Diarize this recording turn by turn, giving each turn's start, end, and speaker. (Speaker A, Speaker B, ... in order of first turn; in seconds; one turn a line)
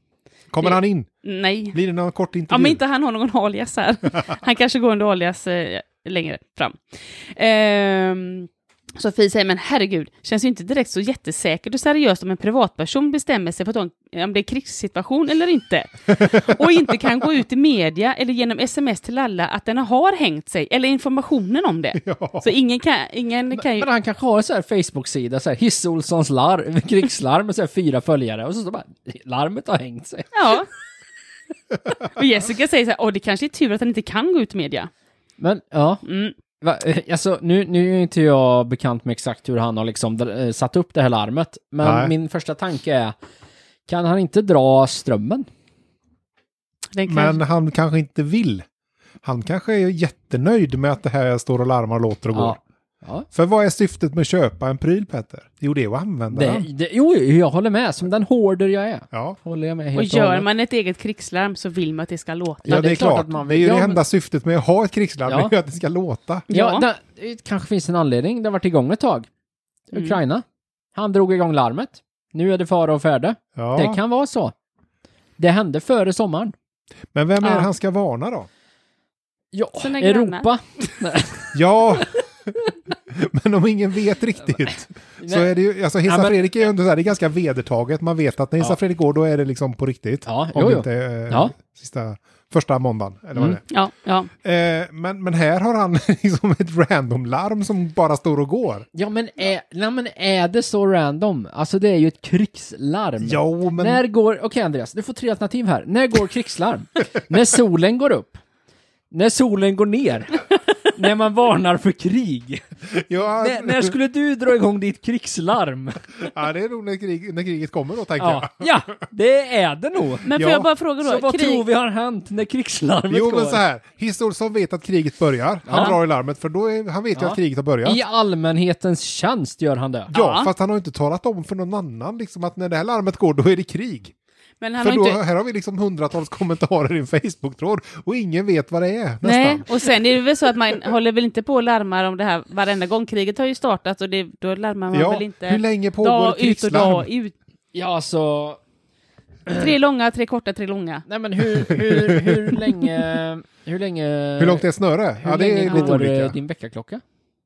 Speaker A: 0.5-1.1
Speaker B: 0.6-1.8
Speaker A: 1.7-2.8
Speaker B: 2.5-23.9
Speaker A: 16.1-16.5
Speaker A: 22.0-22.5
Speaker C: 23.7-30.3
Speaker B: 30.3-30.7
Speaker B: 32.1-34.9
Speaker C: 35.4-36.0
Speaker B: 36.0-36.4
Speaker C: 36.6-43.1
Speaker A: 41.8-42.1
Speaker C: 43.9-45.5
Speaker B: 46.9-47.4
Speaker A: 47.1-48.6
Speaker A: 49.2-52.6
Speaker C: 52.3-53.3
Speaker A: 53.3-56.7
Speaker C: 56.3-60.5
Speaker A: 59.1-59.4
Speaker B: 60.0-62.6
Speaker C: 62.6-64.0
Speaker A: 62.7-66.5
Speaker B: 66.5-66.8
Speaker C: 66.5-69.3
Speaker C: 69.9-74.5
Speaker A: 73.6-74.0
Speaker C: 75.4-76.5
Speaker A: 77.1-78.5
Speaker B: 77.4-77.7
Speaker C: 79.5-81.6
Speaker B: 79.8-80.5
Speaker A: 81.5-82.6
Speaker A: 83.1-93.6
Speaker C: 85.2-85.5
Speaker C: 86.1-86.4
Speaker C: 90.3-91.5
Speaker B: 93.7-94.3
Speaker A: 94.4-98.9
Speaker C: 98.9-108.4
Speaker A: 103.2-104.0
Speaker C: 109.1-112.6
Speaker A: 112.9-113.9
Speaker C: 113.4-116.0
Speaker A: 116.3-118.7
Speaker C: 118.2-120.3
Speaker B: 120.2-121.7
Speaker A: 120.3-120.7
Speaker C: 121.0-123.6
Speaker A: 123.1-128.0
Speaker C: 125.7-126.0
Speaker C: 127.2-130.1
Speaker B: 130.1-130.5
Speaker A: 130.1-134.1
Speaker B: 134.6-135.2
Speaker A: 134.8-139.7
Speaker B: 139.2-147.3
Speaker A: 144.9-147.1
Speaker C: 147.7-148.6
Speaker C: 149.5-149.7
Speaker B: 149.6-151.0
Speaker C: 151.1-154.7
Speaker A: 151.6-152.6
Speaker A: 154.4-156.4
Speaker C: 155.2-157.0
Speaker B: 155.7-156.0